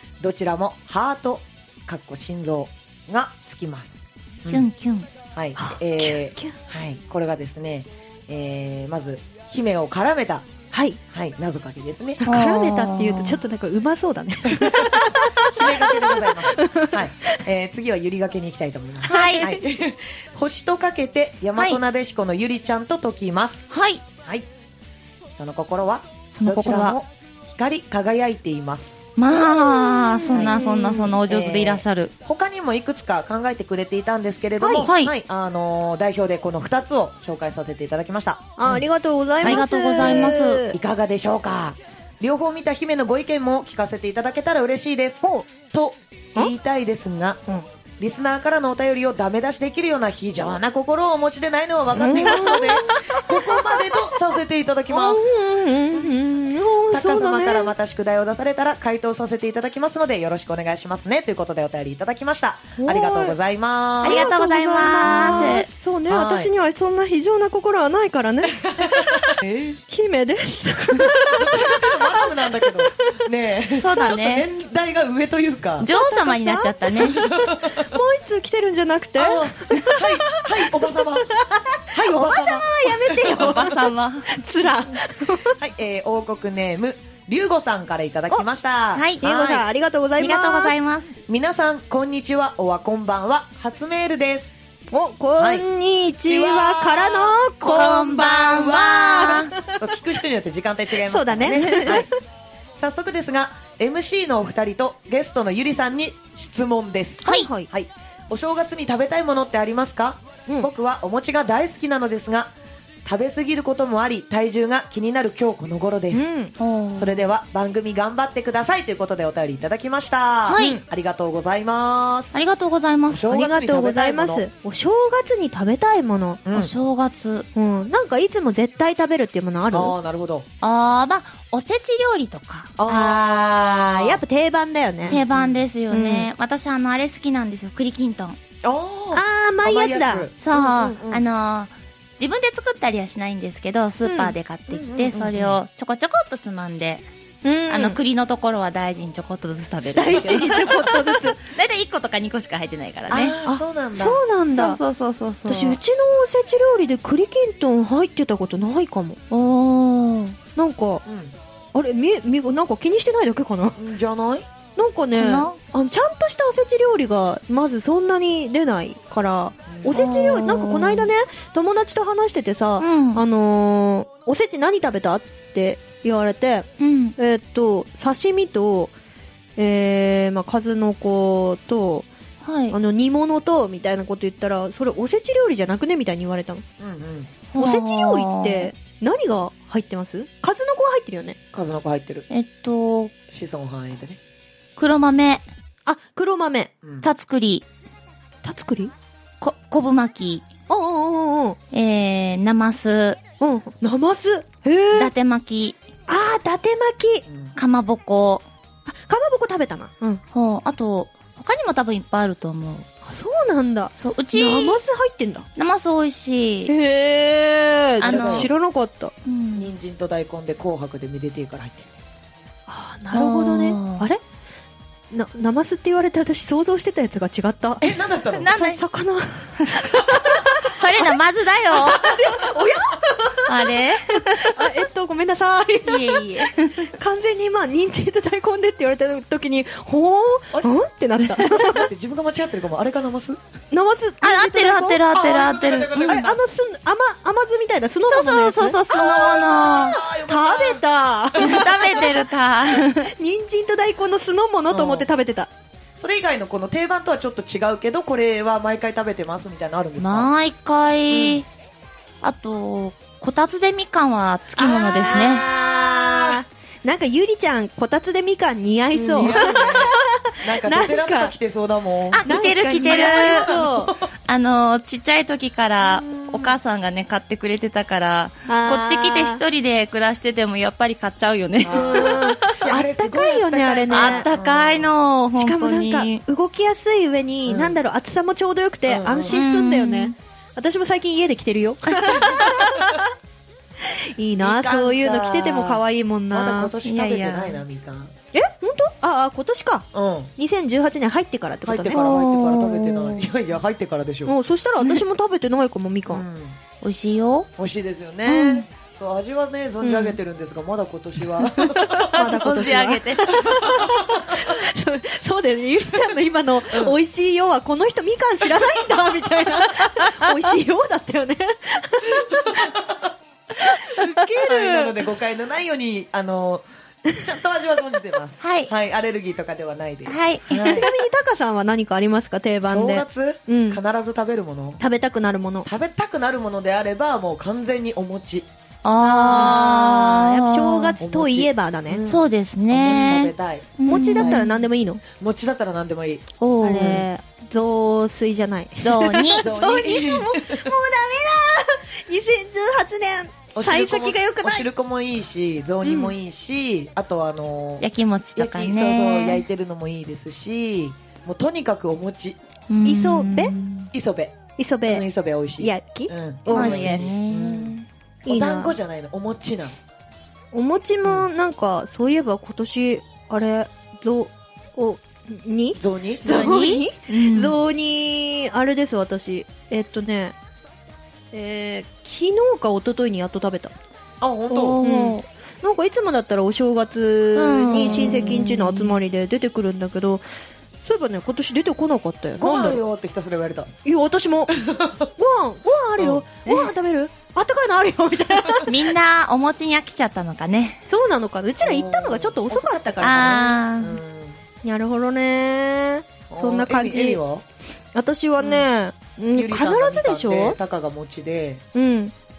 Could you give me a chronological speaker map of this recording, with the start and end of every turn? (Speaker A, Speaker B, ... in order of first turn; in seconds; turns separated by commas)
Speaker A: 0.2-4.7, Speaker B: 4.5-5.1, Speaker A: 5.3-10.5, Speaker C: 5.6-6.5, Speaker C: 10.7-11.0, Speaker A: 11.1-12.2, Speaker C: 12.2-17.4, Speaker B: 12.2-13.4, Speaker A: 14.5-23.6, Speaker C: 19.0-19.6, Speaker B: 19.1-19.5, Speaker B: 23.7-24.0, Speaker A: 25.4-29.0, Speaker B: 26.3-27.0, Speaker B: 29.2-32.1, Speaker C: 29.3-31.2, Speaker A: 30.3-30.6, Speaker A: 31.2-38.8, Speaker C: 34.6-34.9, Speaker B: 34.8-35.1, Speaker C: 38.6-40.8, Speaker B: 39.4-40.6, Speaker A: 39.4-47.4, Speaker C: 45.2-45.5, Speaker A: 48.0-55.3, Speaker C: 51.9-54.2, Speaker C: 54.9-57.7, Speaker A: 56.9-64.2, Speaker C: 62.8-63.4, Speaker B: 64.0-65.7, Speaker C: 64.0-69.3, Speaker A: 65.0-65.5, Speaker A: 66.1-66.5, Speaker A: 68.5-69.8, Speaker C: 69.9-72.9, Speaker A: 71.1-75.9, Speaker B: 73.8-74.5, Speaker B: 75.8-77.3, Speaker C: 75.8-85.6, Speaker A: 77.3-77.9, Speaker A: 79.2-81.3, Speaker A: 81.9-83.6, Speaker B: 83.3-84.3, Speaker A: 85.5-89.6, Speaker B: 89.0-89.2, Speaker C: 89.2-90.9, Speaker B: 90.2-91.1, Speaker A: 91.3-94.5, Speaker C: 94.9-99.8, Speaker A: 95.4-95.6, Speaker A: 96.3-102.1, Speaker B: 97.7-99.5, Speaker C: 101.0-102.1, Speaker A: 102.8-112.5, Speaker B: 107.2-107.5, Speaker C: 107.2-107.7, Speaker A: 113.0-116.3, Speaker C: 116.1-116.5, Speaker B: 116.6-117.2, Speaker A: 117.0-122.3, Speaker B: 120.5-120.8, Speaker C: 120.5-120.8, Speaker B: 122.3-123.2, Speaker A: 123.1-124.4, Speaker C: 123.3-126.4, Speaker A: 126.5-126.7, Speaker B: 126.5-127.5, Speaker C: 127.5-129.9, Speaker A: 129.7-130.5, Speaker B: 130.6-132.7, Speaker A: 132.8-134.2, Speaker C: 132.9-135.2, Speaker A: 135.1-135.6, Speaker B: 135.1-138.4, Speaker C: 135.9-136.3, Speaker A: 138.6-141.2, Speaker C: 139.1-140.3, Speaker B: 140.4-147.0, Speaker C: 144.0-144.3, Speaker A: 144.7-145.6, Speaker C: 147.4-148.0, Speaker B: 147.7-153.3, Speaker C: 149.9-151.4, Speaker A: 150.1-150.7, Speaker A: 153.1-154.2, Speaker C: 153.4-154.8, Speaker B: 154.5-155.8, Speaker C: 155.5-159.2, Speaker B: 159.3-160.4, Speaker C: 160.6-161.0, Speaker A: 161.1-161.3, Speaker C: 161.7-163.8, Speaker A: 163.8-164.5, Speaker C: 164.8-178.9, Speaker B: 165.2-165.6, Speaker A: 169.7-170.0, Speaker B: 169.9-171.1, Speaker B: 172.8-173.2, Speaker B: 176.8-177.2, Speaker C: 179.6-182.1, Speaker B: 182.4-182.8, Speaker C: 182.7-186.7, Speaker A: 186.8-187.3, Speaker B: 187.5-188.7, Speaker C: 187.6-191.4, Speaker A: 191.5-192.3, Speaker B: 192.3-193.1, Speaker A: 193.3-194.2, Speaker B: 194.8-195.5, Speaker C: 195.9-196.7, Speaker A: 196.8-197.1, Speaker B: 197.0-197.7, Speaker C: 198.4-198.9, Speaker B: 199.4-200.5, Speaker C: 200.7-201.6, Speaker B: 201.7-203.2, Speaker C: 203.4-205.1, Speaker B: 204.9-205.8, Speaker C: 206.1-207.2, Speaker A: 207.3-207.5, Speaker B: 207.6-208.4, Speaker C: 208.9-210.2, Speaker B: 210.3-212.9, Speaker C: 213.0-215.5, Speaker B: 213.9-214.8, Speaker B: 215.6-216.7, Speaker C: 216.7-219.1, Speaker B: 218.0-218.5, Speaker A: 218.0-218.5, Speaker B: 219.2-219.7, Speaker A: 219.5-221.9, Speaker C: 222.7-224.2, Speaker B: 223.1-224.1, Speaker C: 225.1-231.2, Speaker A: 227.8-228.5, Speaker B: 228.3-228.8, Speaker B: 230.6-232.1, Speaker C: 231.7-241.9, Speaker B: 233.5-234.7, Speaker B: 235.8-236.9, Speaker A: 241.3-243.4, Speaker C: 243.7-245.2, Speaker B: 244.2-246.3, Speaker A: 245.1-246.4, Speaker C: 246.0-248.8, Speaker B: 248.1-250.0, Speaker A: 248.9-250.8, Speaker C: 250.3-255.5, Speaker A: 251.3-252.0, Speaker B: 251.4-253.1, Speaker A: 254.7-255.1, Speaker A: 256.0-260.3, Speaker B: 260.0-261.5, Speaker A: 261.1-261.4, Speaker B: 262.2-265.5, Speaker C: 264.6-271.3, Speaker A: 265.7-266.4, Speaker A: 268.9-274.1, Speaker B: 272.1-273.5, Speaker C: 272.2-273.9, Speaker B: 274.3-282.2, Speaker A: 275.8-276.6, Speaker C: 278.5-279.4, Speaker A: 281.6-284.9, Speaker C: 281.7-284.3, Speaker B: 283.9-286.2, Speaker C: 285.3-293.0, Speaker A: 287.5-287.8, Speaker A: 288.9-289.4, Speaker B: 289.3-290.1, Speaker B: 291.9-292.3, Speaker A: 292.3-293.0, Speaker C: 293.8-296.7, Speaker A: 294.4-298.1, Speaker B: 296.8-297.6, Speaker C: 298.3-299.9, Speaker A: 299.9-300.3, Speaker C: 300.4-302.2, Speaker A: 301.6-304.4, Speaker B: 301.9-303.2, Speaker C: 304.3-306.2, Speaker A: 306.1-306.6, Speaker B: 306.8-307.5, Speaker A: 307.6-312.5, Speaker C: 308.3-308.6, Speaker C: 309.8-310.2, Speaker C: 311.4-322.7, Speaker B: 312.2-313.6, Speaker A: 313.4-314.5, Speaker A: 316.7-317.0, Speaker A: 322.1-323.0, Speaker A: 323.6-330.9, Speaker C: 323.9-324.9, Speaker B: 328.4-328.7, Speaker B: 330.1-330.9, Speaker C: 330.6-333.8, Speaker A: 332.6-334.8, Speaker C: 334.8-335.7, Speaker A: 335.6-338.5, Speaker B: 338.8-341.0, Speaker C: 339.0-342.0, Speaker A: 339.3-339.6, Speaker A: 341.0-344.4, Speaker B: 342.0-344.6, Speaker C: 343.9-345.0, Speaker A: 345.2-346.2, Speaker B: 346.4-347.1, Speaker C: 346.6-354.7, Speaker B: 348.8-349.5, Speaker A: 349.4-350.7, Speaker A: 353.5-362.4, Speaker C: 355.8-356.1, Speaker B: 357.8-359.4, Speaker B: 362.7-363.9, Speaker C: 362.8-363.5, Speaker A: 363.9-367.8, Speaker C: 364.6-365.0, Speaker C: 365.6-367.0, Speaker B: 366.5-367.9, Speaker C: 368.2-368.8, Speaker A: 368.3-369.8, Speaker C: 370.5-380.4, Speaker A: 375.8-376.5, Speaker B: 376.2-377.6, Speaker C: 381.3-383.7, Speaker A: 384.2-384.8, Speaker B: 384.5-385.2, Speaker C: 384.8-390.2, Speaker B: 387.4-388.9, Speaker C: 390.8-392.8, Speaker A: 392.4-393.7, Speaker C: 393.9-394.5, Speaker A: 394.5-395.1, Speaker C: 395.2-398.7, Speaker A: 396.0-396.2, Speaker B: 398.6-400.8, Speaker C: 400.9-403.5, Speaker A: 401.6-404.4, Speaker B: 403.0-404.0, Speaker C: 404.6-407.2, Speaker A: 406.3-407.4, Speaker C: 407.9-410.6, Speaker A: 408.4-408.6, Speaker A: 409.3-411.6, Speaker C: 411.8-412.1